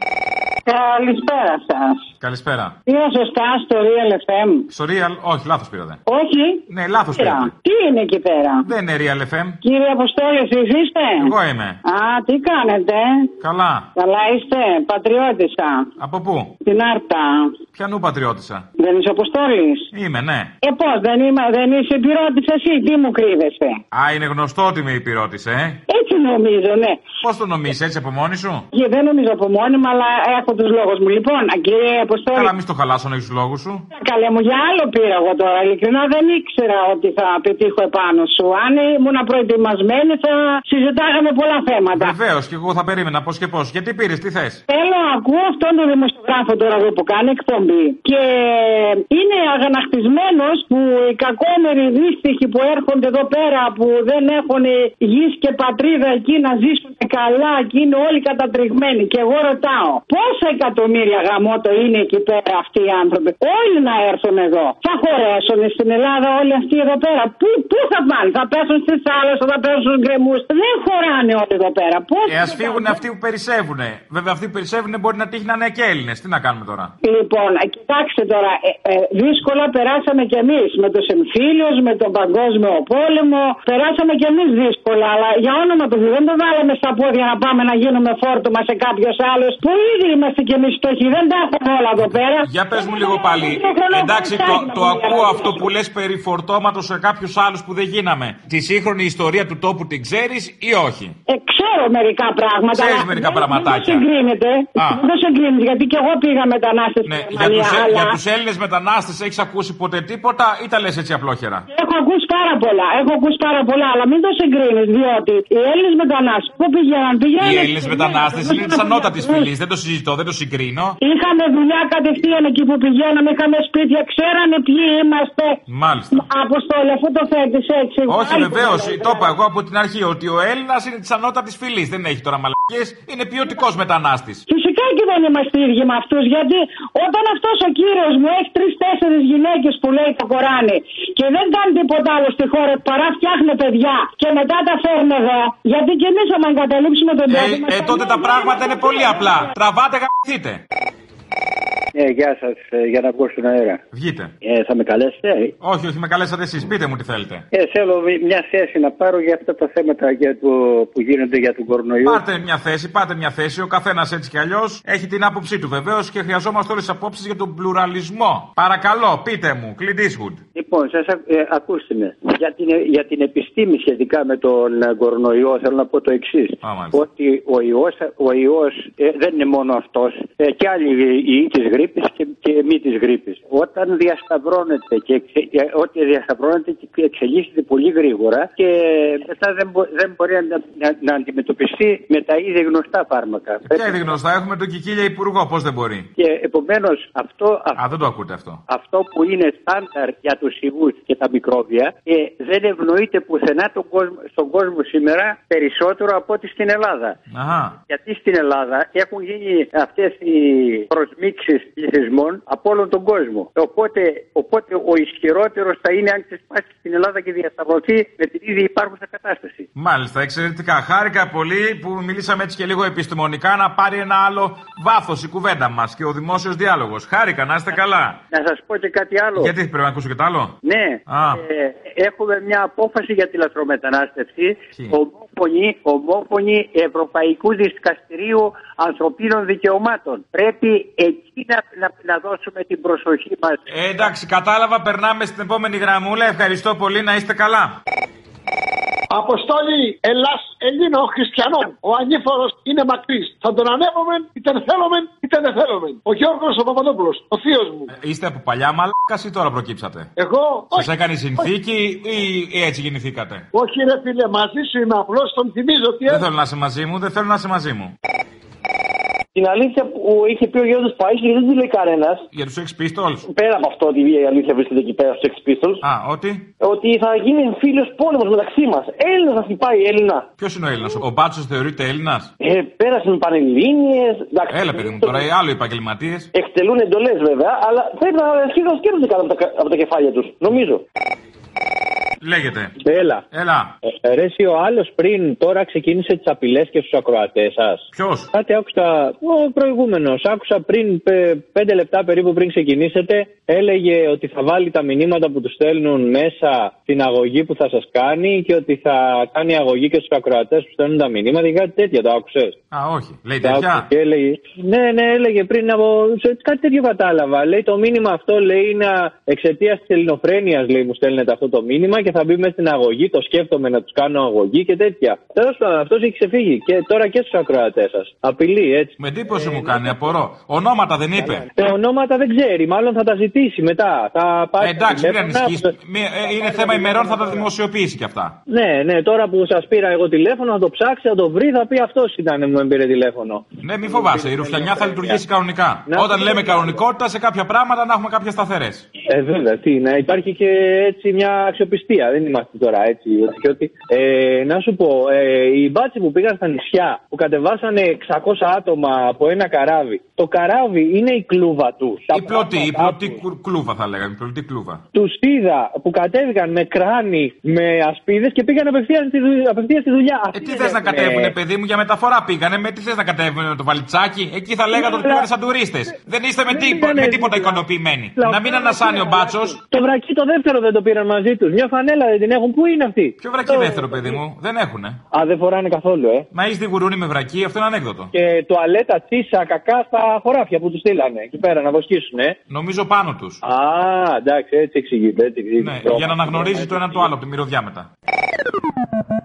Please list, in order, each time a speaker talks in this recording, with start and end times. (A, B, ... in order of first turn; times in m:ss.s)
0:00.7-0:02.1 A
0:02.2-0:02.7 B
0:02.9-0:04.6 A
0:04.7-0:06.0 B
0:06.1-0:08.7 A
0:06.7-0:07.5 B
0:08.6-0:09.6 B
0:09.6-0:11.3 A
0:11.2-0:11.8 B
0:11.8-0:13.3 A
0:13.4-0:13.9 B
0:14.0-0:15.9 A
0:16.0-0:16.5 B
0:16.6-0:17.5 A
0:17.7-0:18.6 B
0:18.8-0:19.9 A
0:19.9-0:20.5 B
0:20.6-0:23.8 A
0:23.9-0:25.8 B
0:25.9-0:27.0 A
0:27.2-0:28.6 B
0:28.7-0:32.5 A
0:32.3-0:33.8 B
0:33.9-0:42.1 A
0:41.9-0:44.6 B
0:44.7-1:13.0 A
1:12.3-1:16.9 B
1:17.0-1:35.6 A
1:32.4-1:41.1 B
1:41.3-1:48.2 A
1:42.7-1:44.0 B
1:44.8-1:45.0 B
1:47.1-1:51.6 B
1:51.7-1:59.5 A
1:57.4-2:01.0 B
2:01.0-2:05.6 A
2:05.7-2:06.2 B
2:06.1-2:09.3 A
2:08.1-2:14.4 B
2:14.5-2:29.5 A
2:27.3-2:30.6 B
2:31.9-2:33.8 C
2:33.9-2:34.3 B
2:34.4-2:35.5 C
2:35.6-2:37.4 B
2:37.5-2:42.2 C
2:42.0-2:50.4 B
2:50.5-3:14.0 C
2:56.6-2:57.0 B
3:13.7-3:16.1 B
3:16.2-3:17.8 C
3:17.8-3:18.6 B
3:18.7-3:27.2 C
3:27.3-3:27.8 B
3:27.9-3:39.7 C
3:39.8-3:48.2 B
3:48.3-3:49.5 C
3:49.4-3:50.5 B
3:50.6-4:04.1 C
3:51.1-3:51.4 B
4:03.7-4:07.8 B
4:09.1-4:17.9 D
4:17.9-4:20.1 B
4:20.2-4:21.5 D
4:20.7-4:23.4 B
4:23.5-4:26.2 D
4:26.1-4:27.9 B
4:29.4-4:32.2 E
4:32.3-4:33.2 B
4:33.3-4:35.8 E
4:35.8-4:36.5 B
4:36.6-4:40.2 E
4:40.4-4:42.3 B
4:42.4-4:45.2 E
4:44.5-4:46.3 B
4:46.3-4:50.8 E
4:52.2-4:52.7 B
4:52.8-4:53.2 F
4:53.3-4:53.7 B
4:54.0-5:12.6 F
4:57.9-4:58.3 B
5:12.7-5:13.9 B
5:13.4-5:30.1 F
5:29.0-5:31.5 B
5:31.2-5:35.7 F
5:34.6-5:38.4 B
5:36.2-5:37.5 F
5:38.5-5:45.2 F
5:43.6-5:48.9 B
5:45.9-5:46.8 F
5:49.1-6:03.2 F
6:02.1-6:04.8 B
6:04.9-6:11.3 F
6:10.3-6:19.6 B
6:14.7-6:15.3 F
6:16.5-6:17.6 F
6:18.2-6:24.2 F
6:23.2-6:25.0 B
6:25.1-6:26.3 F
6:26.3-6:28.1 B
6:28.1-6:32.4 F
6:32.5-6:33.4 B
6:33.4-6:37.1 F
6:35.6-6:37.9 B